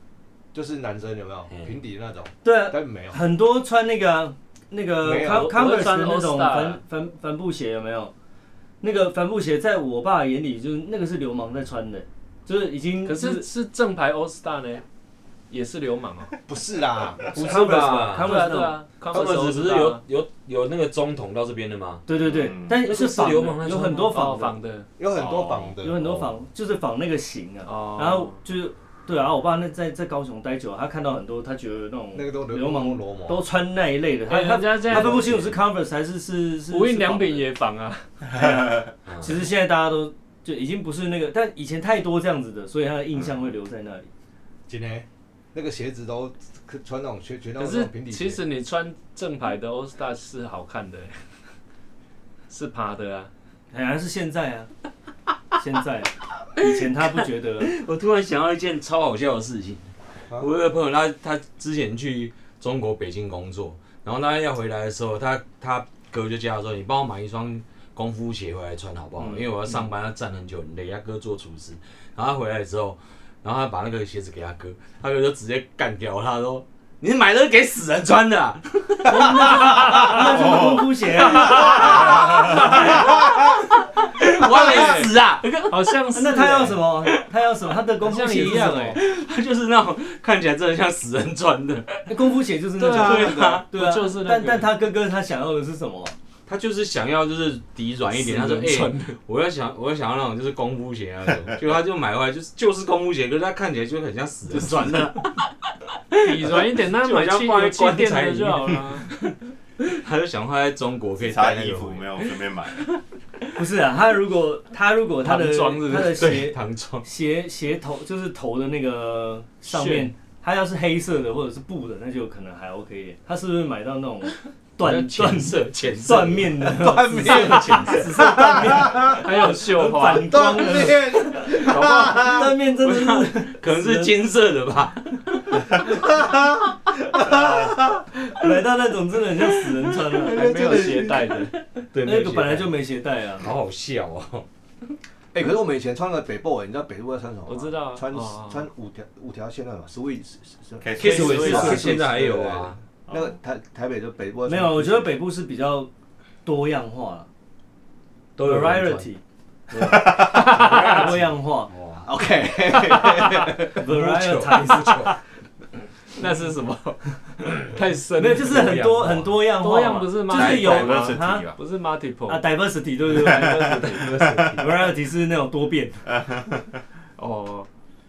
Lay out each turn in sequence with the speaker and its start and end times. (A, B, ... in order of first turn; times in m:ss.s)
0:00.5-0:03.2 A
0:02.4-0:08.1 B
0:05.0-0:05.6 A
0:05.2-0:06.8 C
0:08.8-0:13.5 B
0:13.0-0:14.8 C
0:15.5-0:16.4 C
0:16.5-0:17.4 A
0:17.3-0:18.4 D
0:17.3-0:18.8 B
0:18.2-0:20.0 C
0:19.1-0:22.0 D
0:22.1-0:24.5 B
0:22.2-0:22.8 E
0:22.7-0:24.5 D
0:23.8-0:24.9 C
0:25.0-0:26.0 A
0:25.1-0:25.8 E
0:25.8-0:37.5 B
0:26.0-0:26.3 D
0:27.6-0:28.4 C
0:32.1-0:33.4 A
0:34.3-0:35.4 C
0:34.9-0:35.6 D
0:36.7-0:38.7 C
0:39.1-0:39.4 D
0:39.2-0:44.1 B
0:44.7-0:48.4 A
0:47.6-0:51.2 C
0:52.5-0:53.3 C
0:53.7-0:54.7 B
0:55.6-0:57.7 B
0:56.6-1:20.7 D
1:19.0-1:22.2 B
1:21.3-1:26.0 D
1:21.7-1:23.0 C
1:24.4-1:25.1 C
1:25.7-1:26.8 C
1:26.1-1:29.0 B
1:27.0-1:27.6 D
1:28.0-1:29.0 C
1:28.2-1:33.6 D
1:32.1-1:36.2 B
1:32.8-1:33.6 A
1:33.7-1:34.7 C
1:36.5-1:45.5 D
1:38.1-1:39.2 C
1:46.1-1:49.2 D
1:46.2-1:49.3 C
1:49.8-1:52.2 D
1:51.2-1:52.9 E
1:53.6-2:11.0 B
1:55.2-1:56.3 C
1:56.0-1:57.1 D
1:59.6-2:00.1 C
2:04.8-2:08.0 D
2:06.6-2:09.3 A
2:09.0-2:10.8 C
2:10.2-2:12.5 A
2:11.8-2:15.9 D
2:12.1-2:14.2 B
2:15.8-2:18.0 A
2:18.3-2:20.8 B
2:20.2-2:21.5 C
2:20.3-2:21.3 A
2:21.9-2:22.8 D
2:22.0-2:23.5 B
2:23.4-2:24.5 D
2:25.3-2:35.2 A
2:27.5-2:28.7 C
2:30.8-2:31.9 E
2:31.0-2:32.8 D
2:31.1-2:31.9 B
2:33.1-2:33.3 E
2:34.4-2:35.9 B
2:36.4-2:37.3 B
2:38.4-2:39.1 D
2:38.4-2:41.7 B
2:40.1-2:41.0 C
2:40.3-2:42.1 D
2:42.0-2:43.8 A
2:43.7-2:45.2 B
2:43.8-2:45.2 D
2:44.8-2:45.1 C
2:46.2-2:48.9 C
2:48.2-2:51.5 B
2:48.3-2:49.6 D
2:49.6-2:52.5 C
2:50.3-2:51.6 E
2:50.3-2:50.8 D
2:52.3-2:56.1 B
2:53.1-2:54.2 C
2:53.2-2:54.6 E
2:54.2-2:54.6 D
2:56.1-2:56.6 E
2:57.2-2:57.7 C